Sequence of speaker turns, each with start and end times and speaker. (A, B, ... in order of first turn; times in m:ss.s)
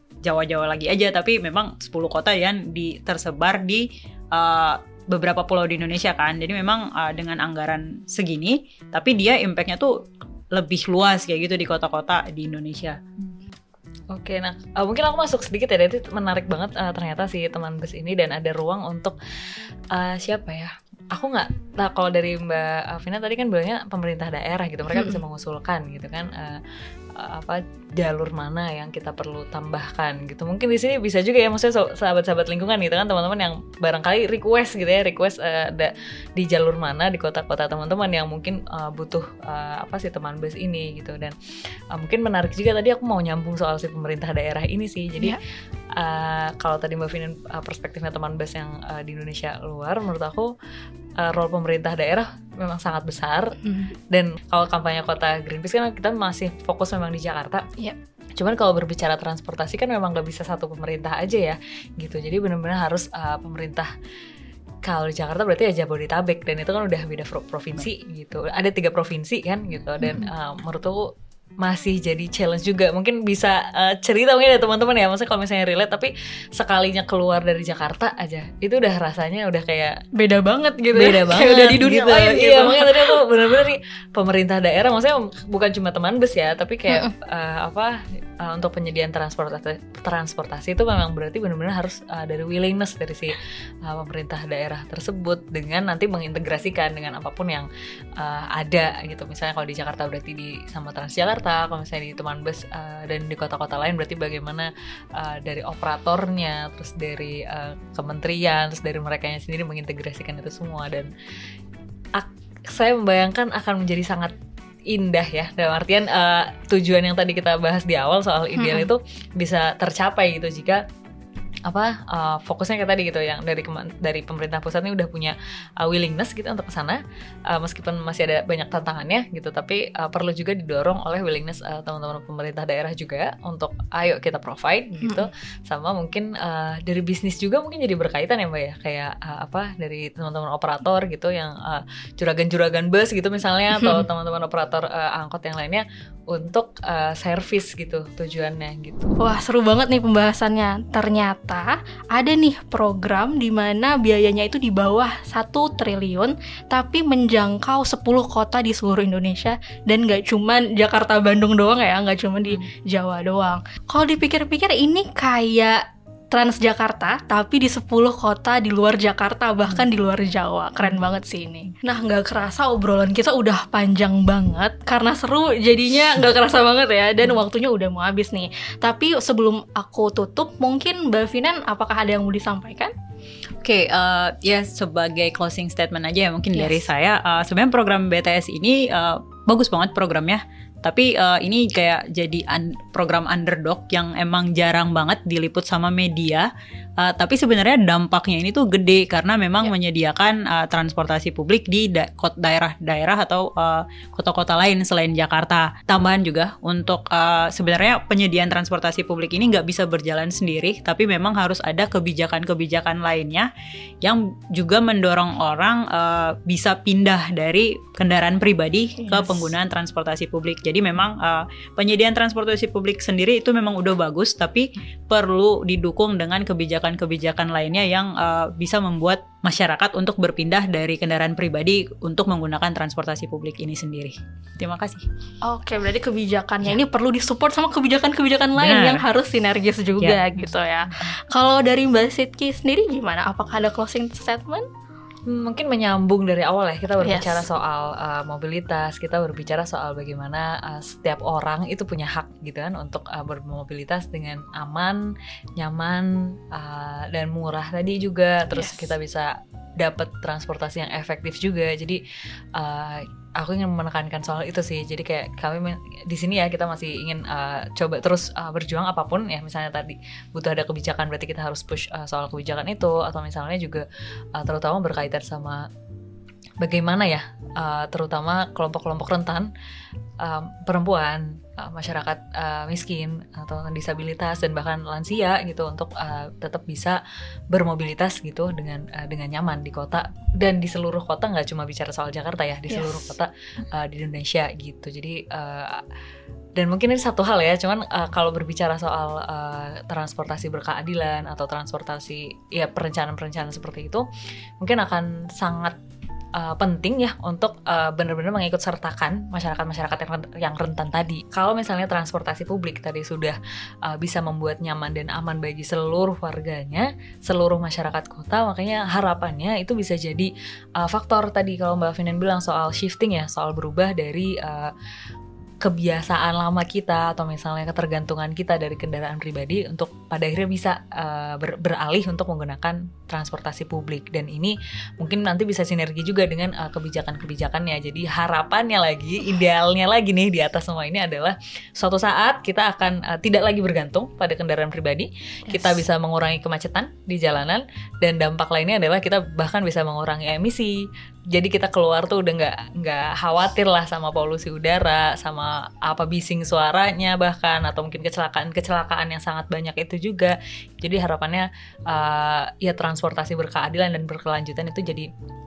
0:00.2-0:09.9 A
0:10.5-0:13.0 A
0:14.1-0:19.2 B
0:19.9-0:26.6 B
0:24.9-0:25.2 C
0:27.2-0:41.4 B
0:41.9-0:45.4 B
0:46.0-0:50.5 B
0:51.2-0:57.6 B
0:53.6-0:53.9 C
0:58.4-1:03.9 B
1:04.8-1:11.0 B
1:11.6-1:20.0 B
1:20.2-1:23.2 C
1:20.9-1:37.7 B
1:38.2-1:51.1 B
1:52.2-1:54.3 B
1:54.9-2:00.8 B
1:58.5-1:58.9 C
2:01.7-2:07.0 B
2:07.5-2:29.2 B
2:15.0-2:15.3 C
2:23.8-2:24.0 C
2:29.2-3:02.9 C
3:03.6-3:16.5 A
3:06.5-3:06.9 C
3:17.0-3:33.5 A
3:34.0-3:55.0 A
3:39.0-3:39.5 C
3:55.4-4:04.7 C
3:58.6-3:59.0 A
4:05.3-4:15.0 B
4:07.0-4:07.4 C
4:15.6-4:22.0 B
4:18.5-4:18.9 C
4:22.6-4:33.8 B
4:34.4-4:35.6 B
4:36.6-4:39.5 B
4:40.2-4:47.0 B
4:47.5-4:55.8 B
4:52.7-4:53.2 C
4:56.6-5:04.0 B
5:04.6-5:05.8 B
5:06.4-5:24.7 B
5:25.6-5:50.8 B
5:45.5-5:45.8 C
5:51.3-6:05.1 B